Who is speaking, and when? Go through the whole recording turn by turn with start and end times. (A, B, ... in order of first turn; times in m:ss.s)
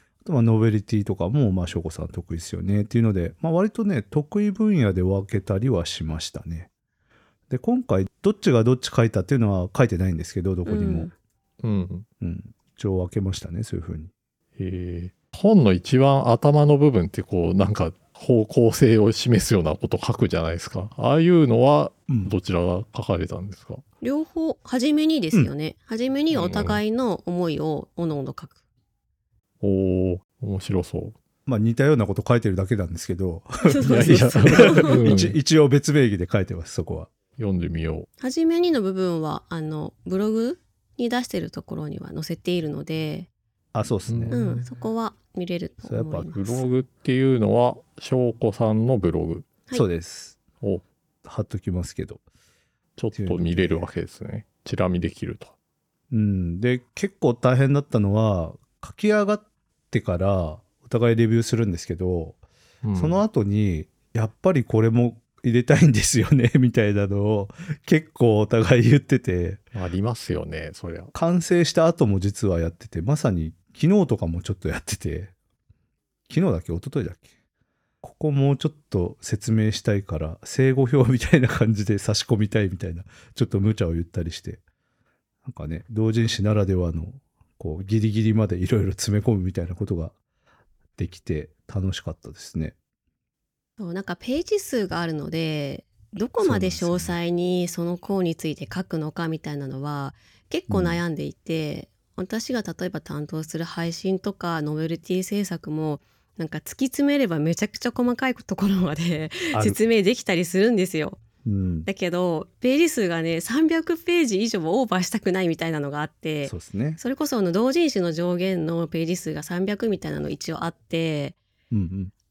0:00.2-0:06.7 A
0:07.5-0:11.1 A
0:10.7-0:11.1 B
0:11.6-0:12.1 C
0:12.2-0:14.1 A
0:14.6-0:23.8 C
0:22.1-0:22.4 A
0:24.0-0:28.5 B
0:26.3-0:26.8 C
0:29.6-0:31.2 C
0:31.5-0:37.1 A
0:33.6-0:35.0 B
0:33.8-0:35.4 C
0:37.4-0:38.1 C
0:38.2-0:43.3 B
0:43.7-0:44.4 A
0:44.1-0:44.7 C
0:44.3-0:46.6 B
0:45.9-0:46.3 A
0:46.3-0:49.5 C
0:49.7-0:50.4 A
0:51.2-0:52.2 A
0:53.0-0:55.5 C
0:53.2-0:53.9 A
0:56.1-1:02.4 A
1:02.8-1:03.2 C
1:03.0-1:09.6 A
1:09.7-1:11.1 C
1:11.1-1:15.3 A
1:16.3-1:17.3 A
1:18.0-1:24.6 A
1:25.4-1:30.2 A
1:31.0-1:32.8 A
1:33.8-1:51.2 B
1:36.4-1:37.2 A
1:40.7-1:41.0 A
1:49.5-1:49.8 A
1:51.4-1:51.9 A
1:51.9-2:01.4 B
1:56.5-1:57.0 A
2:01.7-2:02.1 A